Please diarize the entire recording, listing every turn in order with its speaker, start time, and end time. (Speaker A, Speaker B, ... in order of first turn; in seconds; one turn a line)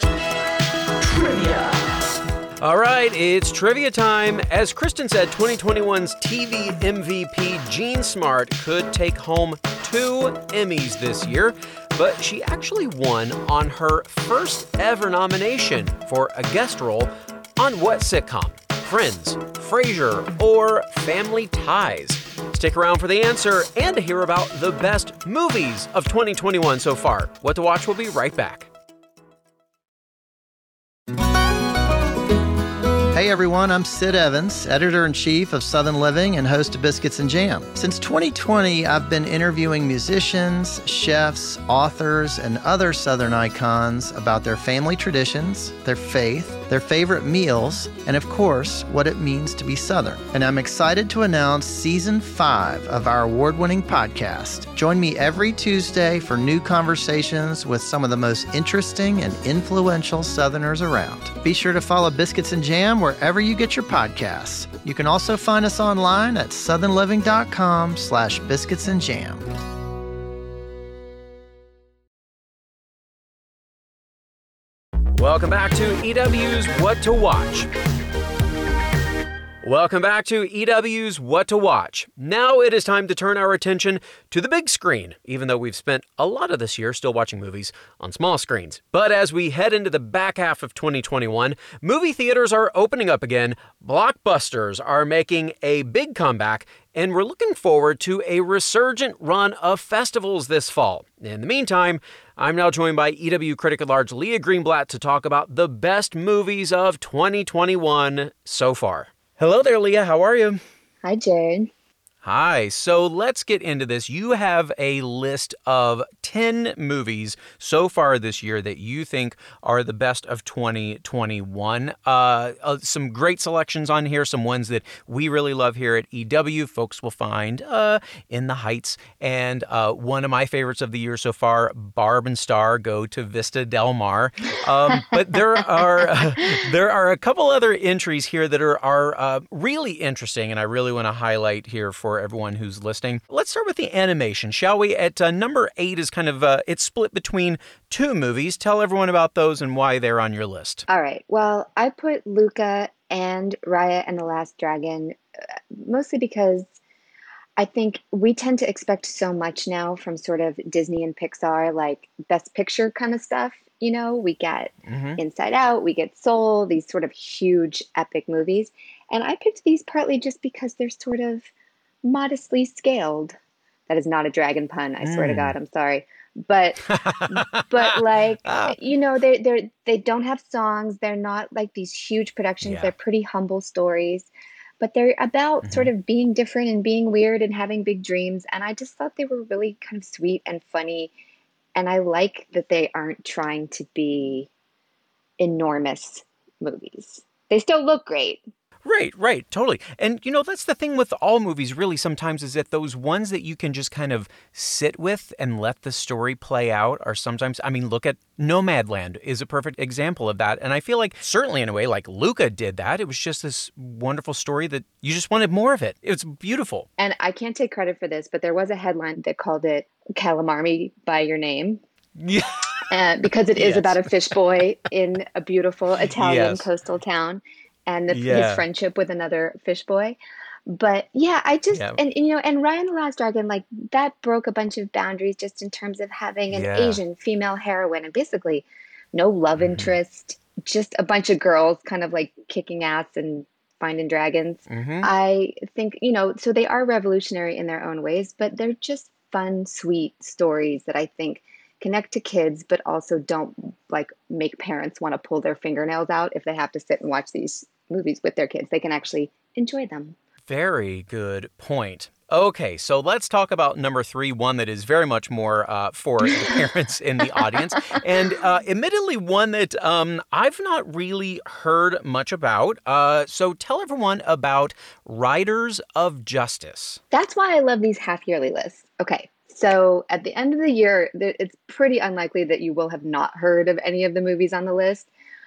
Speaker A: 2.6-28.7
Speaker B: 33.1-69.4
Speaker A: 75.1-77.7
Speaker A: 79.6-110.6
Speaker C: 111.0-111.7
Speaker A: 112.2-150.8
Speaker C: 150.9-155.2
Speaker C: 155.8-156.8
Speaker C: 157.6-171.5
Speaker A: 164.9-165.2
Speaker C: 172.0-173.3
Speaker C: 173.9-184.3
Speaker A: 175.0-175.6
Speaker A: 176.9-178.7
Speaker A: 182.6-182.9
Speaker C: 184.8-191.1
Speaker A: 185.6-185.9
Speaker C: 191.7-194.5
Speaker C: 195.4-198.4
Speaker A: 198.8-216.9
Speaker C: 217.0-221.8
Speaker A: 222.2-222.6
Speaker C: 222.9-260.1
Speaker A: 223.6-223.9
Speaker A: 226.2-226.7
Speaker A: 228.1-228.6
Speaker A: 231.7-232.0
Speaker A: 236.5-237.0
Speaker A: 239.6-239.9
Speaker A: 244.7-245.1
Speaker A: 260.4-277.0
Speaker C: 277.1-285.1